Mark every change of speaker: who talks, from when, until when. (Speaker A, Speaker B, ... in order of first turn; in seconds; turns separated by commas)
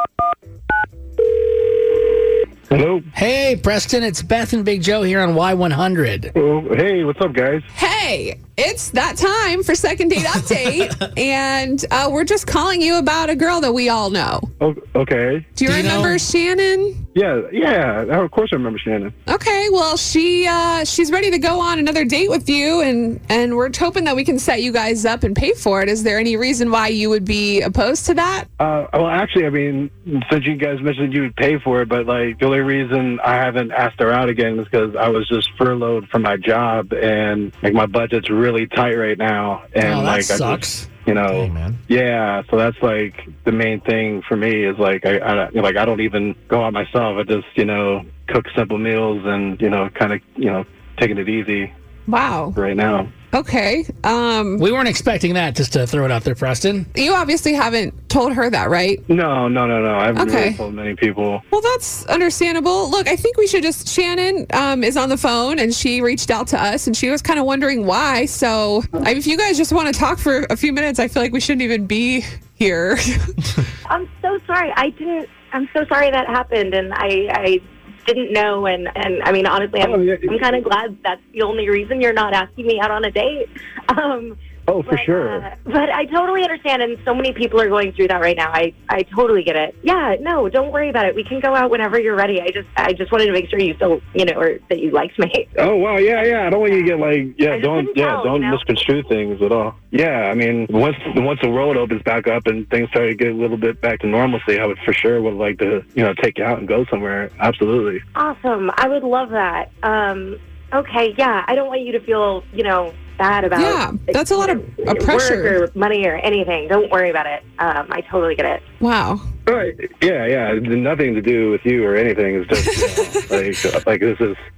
Speaker A: 2.7-3.1, Speaker B: 3.1-6.3, Speaker A: 6.3-7.7, Speaker C: 7.7-14.5, Speaker A: 14.6-15.6, Speaker C: 15.6-17.0, Speaker B: 15.7-16.2, Speaker A: 17.1-19.1, Speaker C: 19.3-28.5, Speaker A: 28.6-51.7, Speaker B: 39.8-41.8, Speaker C: 52.1-52.6, Speaker A: 52.5-53.1, Speaker C: 53.3-54.7, Speaker B: 54.6-56.9, Speaker C: 56.9-59.0, Speaker A: 59.1-61.4, Speaker C: 60.1-60.6, Speaker C: 61.5-73.5, Speaker D: 73.9-95.5, Speaker A: 79.8-80.4, Speaker A: 84.7-85.5, Speaker A: 95.6-108.0, Speaker D: 96.2-96.9, Speaker D: 97.5-98.6, Speaker D: 108.1-118.6, Speaker C: 113.5-115.6, Speaker C: 118.8-119.2, Speaker A: 119.5-124.4, Speaker C: 122.6-123.2